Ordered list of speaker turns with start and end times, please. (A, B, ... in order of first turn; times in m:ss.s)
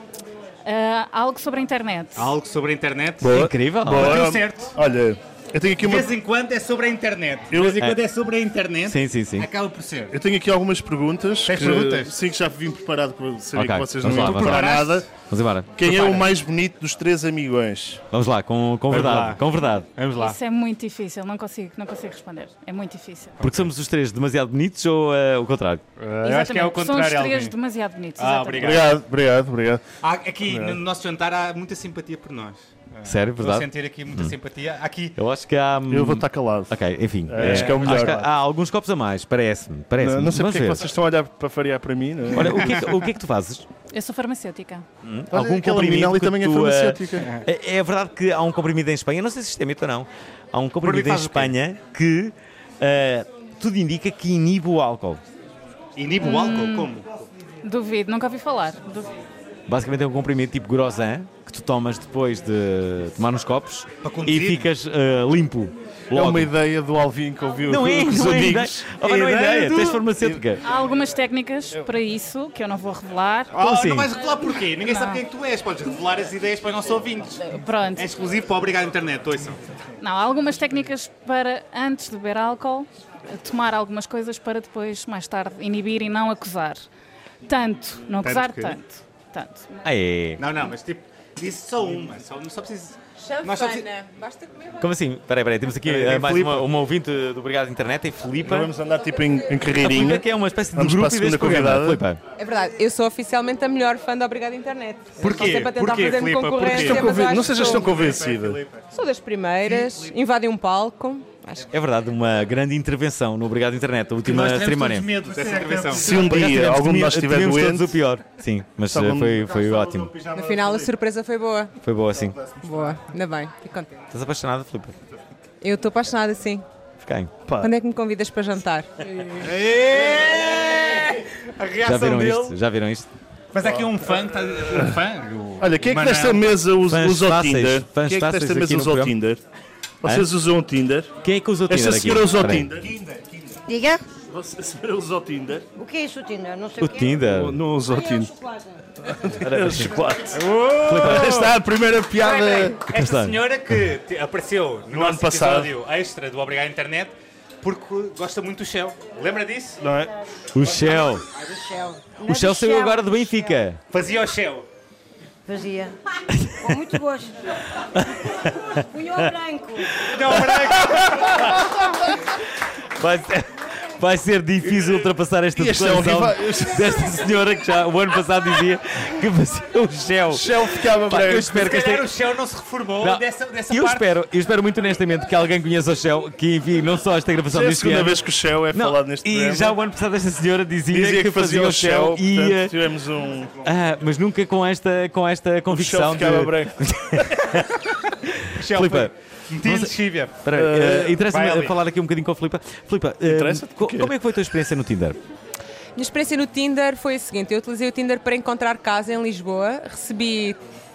0:00.6-0:02.3 A
0:02.1-0:03.3 B
0:03.2-0:06.1 C
0:03.3-0:04.2 D
0:03.9-0:04.7 B
0:05.8-0:10.1 B
0:07.5-0:07.9 C
0:07.6-0:08.0 D
0:08.9-0:09.5 D
0:10.1-0:15.1 C
0:11.4-0:12.1 B
0:13.5-0:16.2 D
0:14.1-0:15.0 B
0:15.8-0:18.0 C
0:18.1-0:19.9 D
0:18.9-0:19.4 B
0:20.0-0:20.4 B
0:20.2-0:23.4 A
0:23.4-0:23.7 B
0:23.4-0:25.8 D
0:26.0-0:27.5 B
0:26.2-0:28.8 A
0:28.2-0:29.0 B
0:28.6-0:29.8 C
0:30.0-0:35.2 B
0:30.5-0:30.8 C
0:33.0-0:34.3 D
0:35.2-0:40.9 D
0:35.9-0:36.8 C
0:37.3-0:38.3 C
0:37.5-0:37.7 B
0:40.0-0:42.8 C
0:42.3-0:43.6 D
0:43.9-0:44.8 A
0:45.0-0:55.2 D
0:45.3-0:47.3 C
0:50.8-0:51.5 B
0:56.0-0:57.3 B
0:56.2-0:56.9 A
0:57.6-0:59.1 A
0:59.7-1:06.5 D
1:04.0-1:04.7 B
1:06.1-1:10.4 C
1:07.7-1:10.6 D
1:09.0-1:10.0 B
1:10.6-1:13.5 A
1:13.5-1:17.4 B
1:13.5-1:14.1 D
1:14.8-1:15.2 A
1:17.5-1:18.0 A
1:18.0-1:19.6 B
1:20.0-1:26.8 A
1:27.4-1:29.8 A
1:28.2-1:28.8 B
1:29.8-1:30.4 D
1:30.4-1:33.9 B
1:33.2-1:34.6 E
1:34.8-1:38.7 D
1:35.8-1:36.6 B
1:38.4-1:42.0 C
1:39.8-1:42.2 D
1:42.4-1:47.8 E
1:45.2-1:48.8 B
1:46.6-1:48.6 C
1:48.9-1:51.7 E
1:49.8-1:50.1 B
1:51.7-1:55.1 D
1:54.2-1:56.5 B
1:55.3-1:55.9 E
1:55.9-1:57.9 C
1:56.0-2:00.1 D
1:58.9-2:00.3 C
2:00.3-2:01.7 E
2:01.8-2:02.4 D
2:02.6-2:04.0 E
2:04.1-2:04.9 D
2:05.6-2:06.6 E
2:07.0-2:07.3 D
2:07.6-2:08.9 E
2:09.4-2:12.6 B
2:11.8-2:13.1 D
2:13.5-2:16.4 B
2:15.6-2:19.4 C
2:16.9-2:19.1 D
2:20.0-2:21.1 C
2:21.2-2:22.7 D
2:21.7-2:23.0 C
2:23.7-2:24.0 F
2:24.3-2:25.6 C
2:25.8-2:27.2 F
2:26.8-2:27.6 D
2:27.3-2:28.3 C
2:29.1-2:32.9 C
2:29.4-2:30.2 D
2:30.3-2:31.5 B
2:30.8-2:31.5 D
2:32.1-2:39.8 B
2:32.9-2:33.4 D
2:34.9-2:35.7 C
2:39.8-2:40.1 C
2:40.5-2:41.2 D
2:41.3-2:43.3 F
2:42.2-2:43.8 D
2:43.9-2:44.6 B
2:45.4-2:46.0 F
2:46.3-2:46.8 D
2:46.6-2:47.3 F
2:47.9-2:48.5 D
2:48.9-2:49.9 F
2:50.1-2:51.5 B
2:50.3-2:51.3 D
2:53.0-3:02.1 D
2:55.6-2:57.0 C
3:00.3-3:01.6 C
3:01.5-3:04.0 B
3:03.0-3:08.2 D
3:07.5-3:09.8 C
3:08.7-3:12.7 D
3:10.9-3:13.5 C
3:13.6-3:19.1 D
3:15.7-3:16.8 C
3:18.5-3:20.4 B
3:19.6-3:19.9 D
3:20.4-3:25.2 D
3:20.5-3:21.2 C
3:21.2-3:21.8 B
3:23.2-3:24.1 C
3:26.0-3:30.6 E